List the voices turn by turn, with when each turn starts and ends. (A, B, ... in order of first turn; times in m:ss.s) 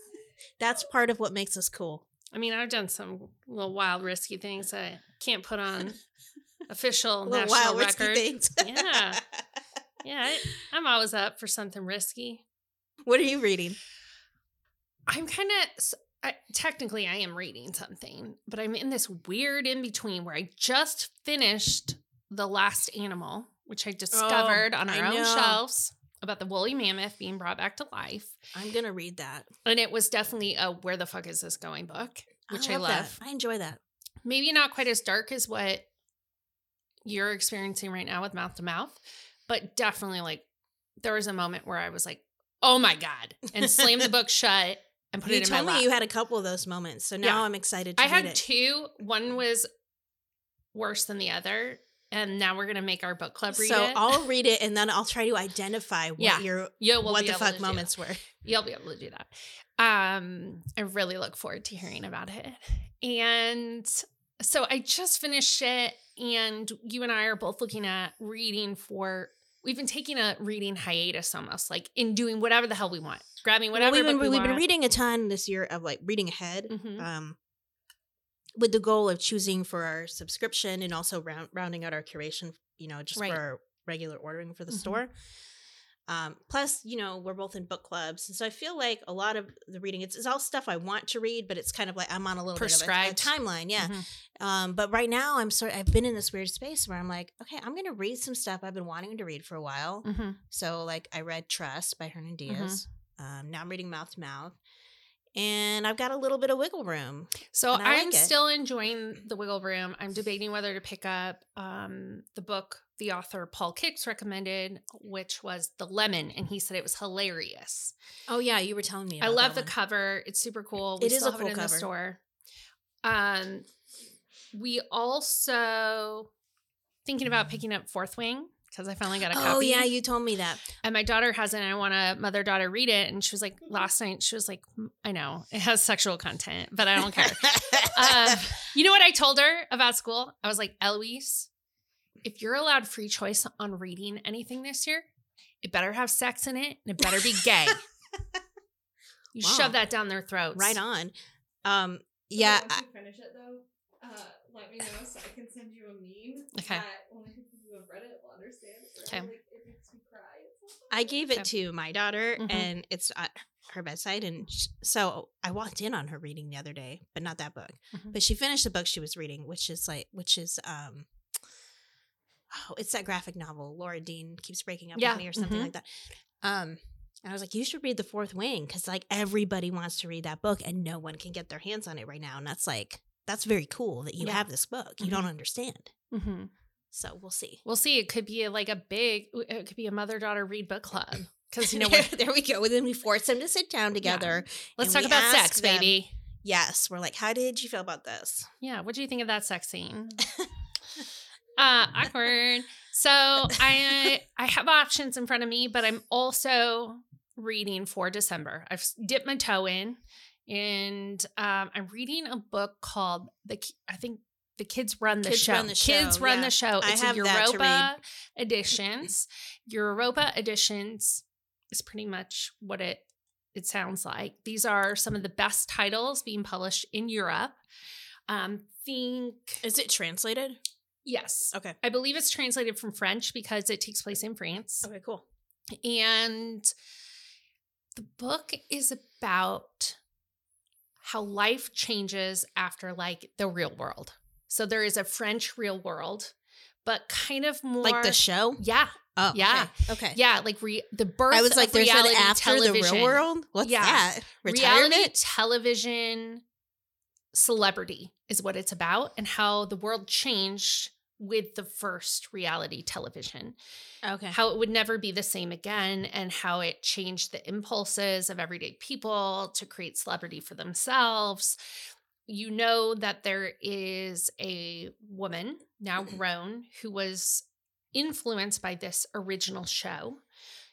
0:00.6-0:02.1 A
0:02.3-0:06.0 B
0:06.7-0:09.2 B
0:07.3-0:09.2 A
0:10.0-0:12.4 B
0:13.0-0:13.8 A
0:15.1-0:28.4 B
0:24.1-0:25.6 A
0:28.6-0:29.5 A
0:29.7-0:33.1 B
0:32.5-0:33.8 A
0:34.2-0:35.9 B
0:37.0-0:40.4 B
0:41.0-0:45.9 B
0:45.2-0:48.4 A
0:48.0-0:49.7 B
0:50.7-0:54.1 B
0:53.5-0:58.2 A
0:56.2-1:14.6 B
1:13.7-1:17.4 A
1:16.7-1:17.1 B
1:18.6-1:25.1 A
1:23.2-1:23.4 B
1:24.7-1:25.0 B
1:26.1-1:44.6 A
1:32.6-1:34.1 B
1:40.0-1:40.4 B
1:42.5-1:42.8 B
1:45.4-1:48.4 A
1:47.5-1:57.9 B
1:58.3-1:59.7 A
1:59.2-2:02.2 B
2:01.0-2:01.9 A
2:03.0-2:03.7 B
2:04.5-2:06.3 B
2:07.0-2:09.9 B
2:09.3-2:10.6 A
2:10.8-2:21.5 B
2:17.5-2:18.3 A
2:22.2-2:25.0 B
2:25.6-2:27.8 B
2:29.4-2:30.8 B
2:29.4-2:29.8 A
2:30.6-2:31.1 A
2:31.6-2:32.8 A
2:32.4-2:41.2 C
2:36.6-2:36.8 B
2:39.1-2:39.3 B
2:40.9-2:51.1 A
2:42.4-2:42.7 B
2:52.5-3:05.9 A
2:55.0-2:55.7 B
3:04.2-3:04.5 B
3:05.0-3:05.3 B
3:06.1-3:06.5 B
3:06.9-3:07.6 A
3:07.6-3:12.1 B
3:11.6-3:18.5 A
3:14.0-3:16.1 B
3:18.6-3:20.2 B
3:21.6-3:43.0 B
3:35.2-3:37.9 A
3:43.6-3:47.6 B
3:48.3-3:49.6 B
3:49.6-3:50.6 A
3:51.0-3:54.9 B
3:54.8-3:55.2 A
3:55.8-3:56.7 B
3:58.0-4:00.0 B
4:01.0-4:06.3 B
4:06.8-4:16.4 B
4:07.8-4:08.6 A
4:09.2-4:10.2 A
4:11.3-4:15.1 A
4:17.3-4:23.6 B
4:24.0-4:24.4 A
4:24.3-4:31.6 B
4:32.3-4:40.2 B